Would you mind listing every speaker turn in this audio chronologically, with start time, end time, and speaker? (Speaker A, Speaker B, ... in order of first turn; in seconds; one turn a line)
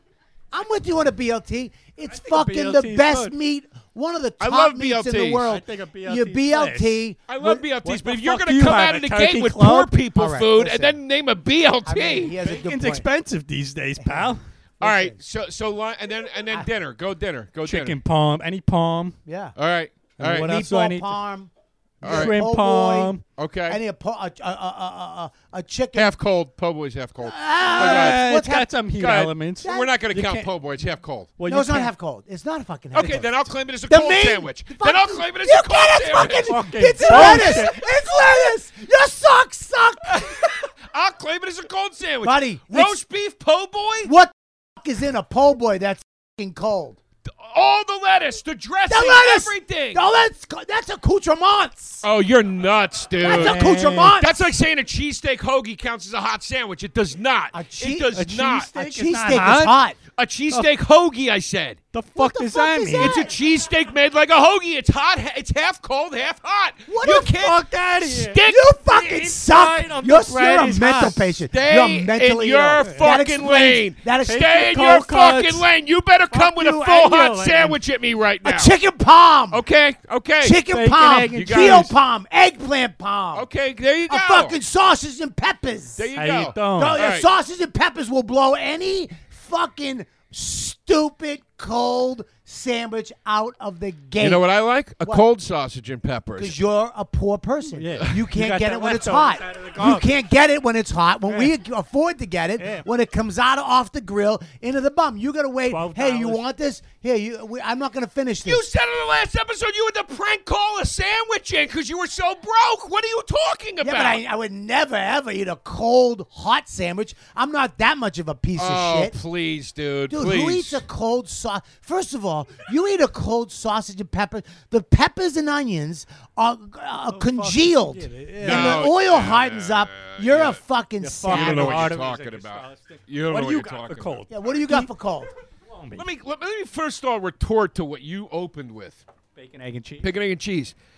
Speaker A: 0.5-7.6
Speaker B: 2.1-3.4
Speaker C: 4.4-5.5
Speaker B: 5.4-7.0
Speaker C: 7.3-12.4
Speaker B: 7.8-9.9
Speaker A: 10.1-11.0
Speaker A: 11.8-13.1
Speaker B: 12.4-14.4
Speaker A: 14.0-15.2
Speaker C: 14.8-18.0
Speaker B: 17.6-19.2
Speaker A: 19.3-19.6
Speaker C: 19.6-20.5
Speaker B: 20.2-21.2
Speaker A: 20.2-21.5
Speaker C: 22.0-22.4
Speaker A: 22.0-23.1
Speaker B: 22.0-23.2
Speaker C: 23.4-23.8
Speaker A: 23.7-26.1
Speaker C: 25.9-28.2
Speaker A: 27.2-28.7
Speaker B: 27.7-30.6
Speaker C: 28.9-31.3
Speaker A: 29.6-29.9
Speaker B: 31.4-31.9
Speaker A: 31.5-33.3
Speaker C: 32.9-37.6
Speaker A: 33.9-40.4
Speaker B: 36.4-37.8
Speaker C: 40.1-44.1
Speaker A: 42.2-43.0
Speaker A: 44.0-47.0
Speaker C: 47.3-50.0
Speaker A: 48.9-52.0
Speaker C: 52.0-53.6
Speaker A: 53.2-54.3
Speaker B: 53.2-54.2
Speaker C: 54.1-58.7
Speaker A: 57.5-60.0
Speaker B: 58.2-59.8
Speaker C: 60.1-61.8
Speaker B: 61.9-63.2
Speaker A: 62.1-63.3
Speaker C: 63.0-68.8
Speaker A: 66.9-67.3
Speaker B: 67.1-71.4
Speaker A: 68.5-74.7
Speaker C: 71.5-78.7
Speaker B: 72.8-73.2
Speaker B: 74.2-75.7
Speaker B: 76.3-77.8
Speaker A: 78.4-79.6
Speaker C: 79.5-80.6
Speaker A: 80.4-83.5
Speaker B: 80.7-82.0
Speaker C: 81.3-82.0
Speaker C: 83.3-84.6
Speaker A: 84.1-86.1
Speaker C: 86.0-87.3
Speaker B: 86.2-87.0
Speaker A: 86.7-94.5
Speaker C: 94.2-96.6
Speaker A: 96.4-108.7
Speaker B: 97.7-100.1
Speaker B: 102.6-102.9
Speaker B: 105.7-106.4
Speaker C: 108.4-114.2
Speaker A: 113.8-119.2
Speaker C: 118.6-120.8
Speaker A: 120.1-132.0
Speaker B: 127.1-128.9
Speaker C: 128.4-130.6
Speaker B: 131.0-134.9
Speaker C: 131.3-134.2
Speaker A: 134.3-135.3
Speaker B: 135.7-136.1
Speaker C: 135.9-139.1
Speaker B: 139.3-140.1
Speaker C: 140.0-140.8